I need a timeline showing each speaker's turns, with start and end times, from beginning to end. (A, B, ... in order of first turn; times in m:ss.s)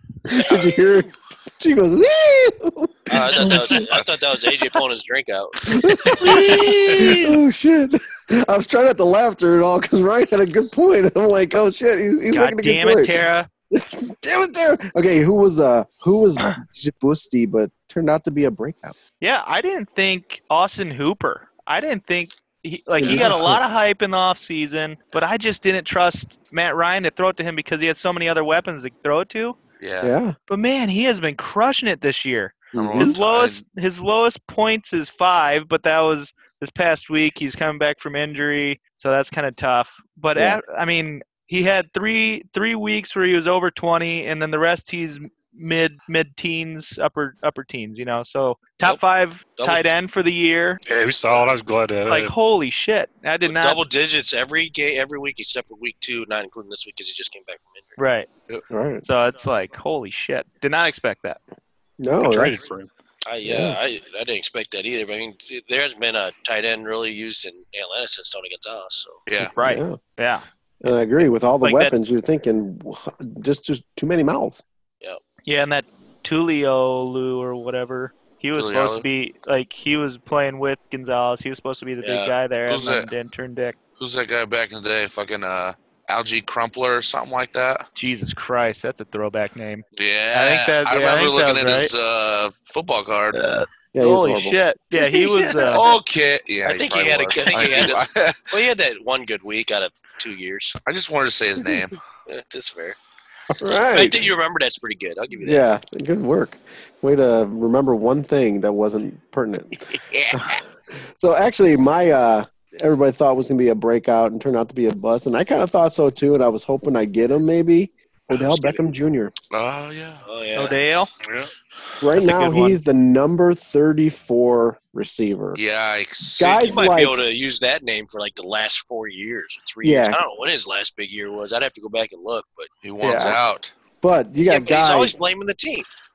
0:00.3-0:03.9 A
0:00.4-0:00.8 B
0:03.1-0:05.7 B
0:05.7-0:19.0 A
0:06.0-0:07.2 C
0:12.3-0:13.5 C
0:19.2-0:29.6 C
0:22.9-0:23.6 A
0:29.8-0:30.1 D
0:30.0-0:30.4 A
0:30.5-0:50.8 C
0:32.7-0:33.2 A
0:32.8-0:33.6 D
0:40.4-0:40.6 A
0:49.6-0:49.8 B
0:50.9-0:52.3 E
0:52.1-0:53.8 C
0:53.4-0:58.0 B
0:58.0-0:58.3 C
0:58.7-0:59.0 A
0:59.0-1:01.4 C
1:02.0-1:02.6 A
1:02.2-1:02.9 E
1:03.3-1:09.2 B
1:03.4-1:03.8 A
1:09.3-1:09.5 D
1:09.4-1:10.0 A
1:09.6-1:10.4 C
1:10.8-1:14.6 A
1:11.6-1:12.0 C
1:15.5-1:23.8 C
1:18.6-1:19.0 D
1:22.0-1:22.4 B
1:22.7-1:23.1 D
1:24.0-1:27.9 D
1:28.0-1:31.9 C
1:30.0-1:33.4 D
1:33.3-1:35.8 C
1:33.9-1:34.6 A
1:35.7-1:38.6 D
1:36.6-1:40.8 B
1:40.8-1:42.0 D
1:42.3-1:43.0 B
1:43.5-1:44.3 A
1:43.9-1:45.6 B
1:45.4-1:59.3 A
1:50.1-1:50.6 D
1:59.5-2:00.2 D
2:00.2-2:00.8 B
2:00.6-2:01.1 C
2:01.2-2:01.5 E
2:02.0-2:05.6 A
2:02.2-2:02.8 C
2:05.6-2:06.8 D
2:06.4-2:07.2 A
2:06.4-2:12.7 B
2:09.8-2:10.2 A
2:12.8-2:13.8 D
2:13.0-2:13.4 A
2:14.0-2:15.2 A
2:14.4-2:15.9 B